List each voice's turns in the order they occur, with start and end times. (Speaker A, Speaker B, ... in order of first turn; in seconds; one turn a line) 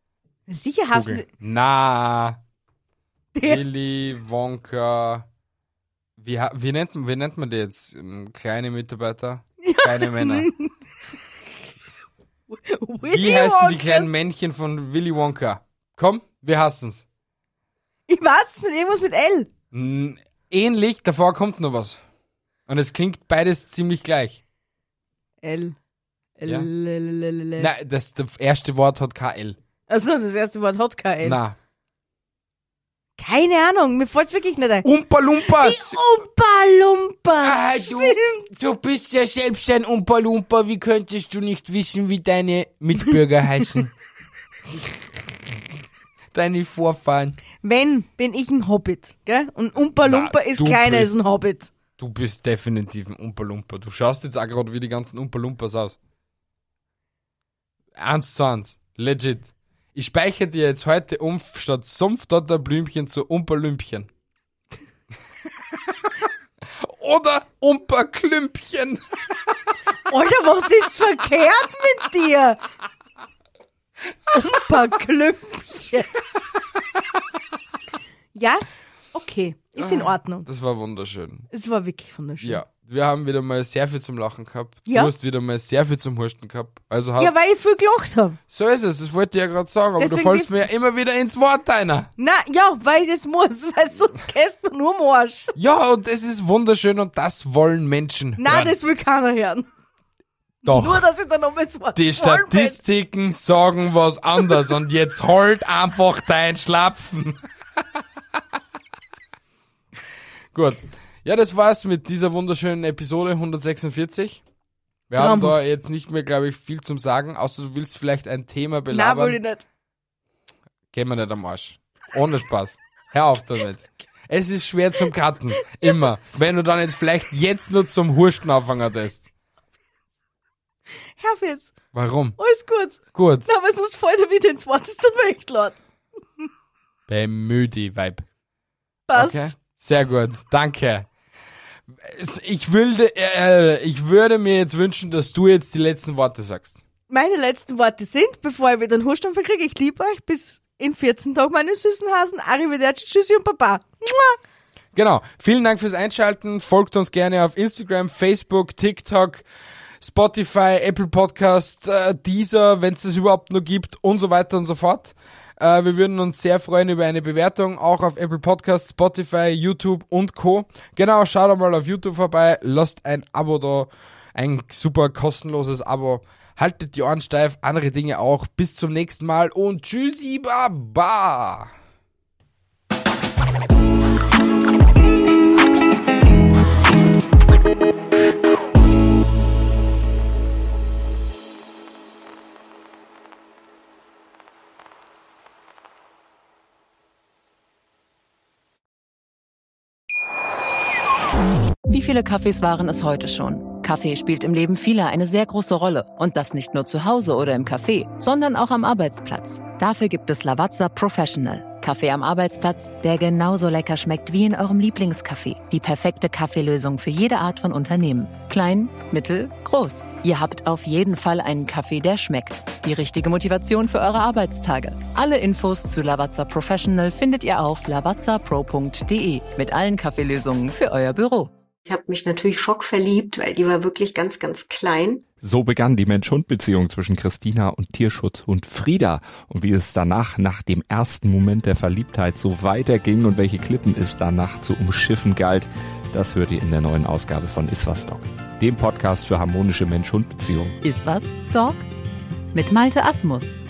Speaker A: 0.5-1.3
Speaker B: 0.9-2.4
Speaker A: 3.4-3.6
Speaker B: 3.4-5.3
Speaker B: 6.2-10.5
Speaker A: 9.6-10.7
Speaker A: 12.5-14.1
Speaker B: 13.0-17.1
Speaker A: 18.1-19.5
Speaker B: 19.7-22.0
Speaker B: 22.7-24.4
Speaker A: 25.4-25.8
Speaker A: 26.4-27.7
Speaker B: 27.6-29.6
Speaker A: 29.9-31.4
Speaker B: 31.2-31.6
Speaker A: 33.2-34.9
Speaker B: 34.8-36.0
Speaker A: 35.4-38.5
Speaker B: 37.4-43.9
Speaker B: 46.3-47.4
Speaker A: 47.6-51.7
Speaker B: 50.0-51.1
Speaker B: 52.0-56.0
Speaker B: 58.0-64.1
Speaker B: 66.8-69.0
Speaker A: 70.1-72.6
Speaker A: 74.3-76.1
Speaker A: 78.3-80.5
Speaker B: 79.8-81.5
Speaker A: 81.5-82.6
Speaker B: 82.4-87.3
Speaker A: 84.9-85.1
Speaker A: 87.2-88.4
Speaker B: 88.5-92.1
Speaker A: 90.0-90.6
Speaker A: 92.2-95.5
Speaker B: 95.5-98.8
Speaker A: 98.4-99.7
Speaker B: 100.7-101.1
Speaker A: 100.7-102.8
Speaker B: 102.0-107.4
Speaker B: 110.5-114.4
Speaker B: 115.1-119.4
Speaker A: 115.2-115.6
Speaker A: 118.9-119.7
Speaker B: 120.9-129.3
Speaker A: 131.2-131.7
Speaker B: 131.9-132.4
Speaker A: 132.4-135.8
Speaker B: 133.1-133.5
Speaker B: 137.1-138.3
Speaker A: 139.1-139.6
Speaker B: 139.2-141.1
Speaker B: 141.9-146.8
Speaker A: 147.1-154.4
Speaker B: 154.9-159.4
Speaker B: 160.0-181.7
Speaker C: 201.9-231.5
Speaker D: 231.9-235.2
Speaker E: 235.4-250.8
Speaker C: 250.8-251.8
Speaker C: 252.5-253.6